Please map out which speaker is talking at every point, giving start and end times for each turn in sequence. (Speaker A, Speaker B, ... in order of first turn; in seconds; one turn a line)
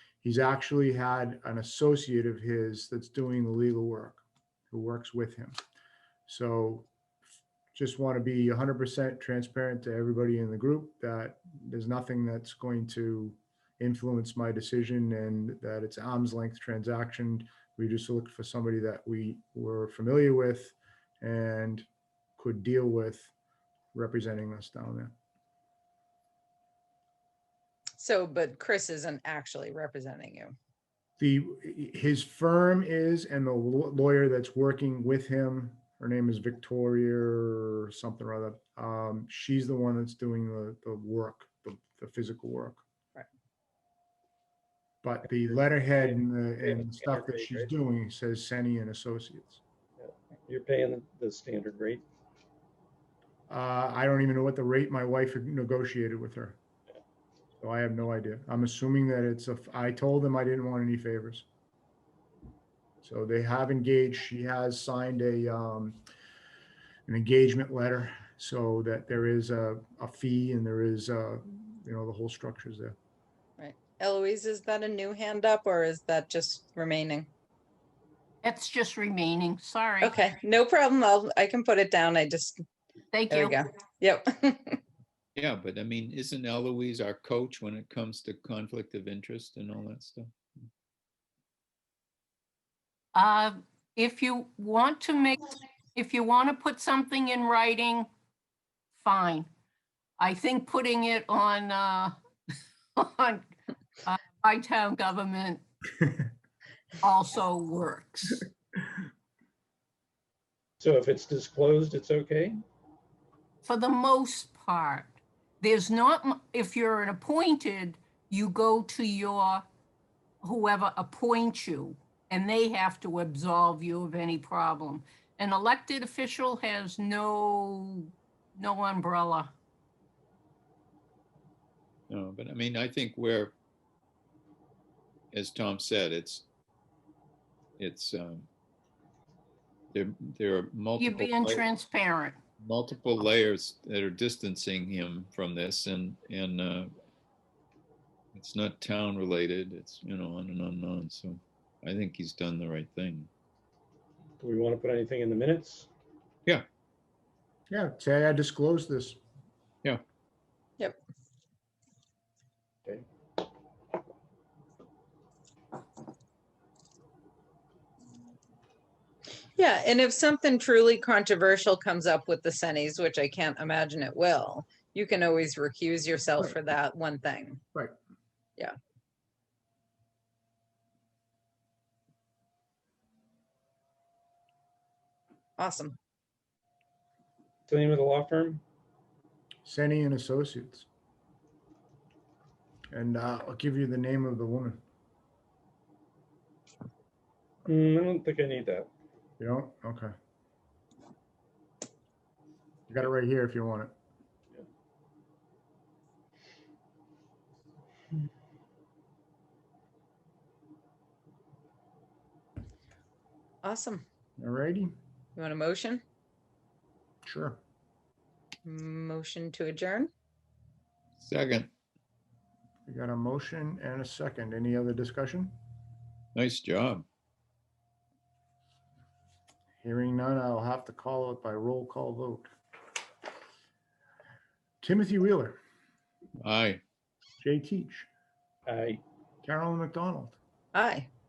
Speaker A: 0.2-5.6
Speaker A: 6.2-6.9
Speaker A: 7.7-21.9
Speaker A: 22.4-23.3
Speaker A: 23.9-25.1
Speaker B: 28.0-30.5
Speaker A: 31.2-42.8
Speaker A: 45.0-49.6
Speaker C: 46.6-47.7
Speaker C: 50.0-52.0
Speaker A: 53.5-56.6
Speaker A: 57.6-61.5
Speaker A: 63.0-66.0
Speaker A: 67.1-73.0
Speaker B: 73.6-77.3
Speaker D: 78.4-80.1
Speaker B: 80.0-82.6
Speaker D: 83.1-83.6
Speaker B: 83.3-84.8
Speaker E: 85.3-90.3
Speaker D: 93.1-98.1
Speaker D: 99.0-99.5
Speaker D: 100.2-102.1
Speaker D: 103.0-103.5
Speaker D: 104.0-105.6
Speaker D: 107.0-108.5
Speaker C: 110.8-112.6
Speaker D: 113.6-119.7
Speaker D: 120.4-129.5
Speaker E: 132.1-133.5
Speaker E: 135.3-136.4
Speaker E: 137.8-138.5
Speaker E: 139.9-141.7
Speaker D: 141.0-142.4
Speaker E: 142.6-146.9
Speaker E: 148.3-153.3
Speaker C: 154.4-155.9
Speaker A: 157.7-159.2
Speaker B: 169.5-177.6
Speaker B: 185.6-185.9
Speaker C: 187.7-188.6
Speaker A: 189.6-190.9
Speaker A: 192.9-194.8
Speaker C: 197.7-198.9
Speaker A: 199.4-200.1
Speaker A: 202.9-203.9
Speaker B: 213.6-214.0
Speaker A: 214.4-214.9
Speaker B: 215.3-216.0
Speaker A: 217.2-217.6
Speaker B: 218.6-220.1
Speaker E: 221.2-221.7
Speaker A: 222.9-225.6
Speaker E: 226.3-227.1
Speaker A: 229.8-232.5
Speaker A: 234.8-235.6
Speaker E: 236.4-236.8
Speaker A: 237.4-238.1
Speaker C: 238.7-239.0
Speaker A: 239.4-240.4
Speaker B: 240.7-241.1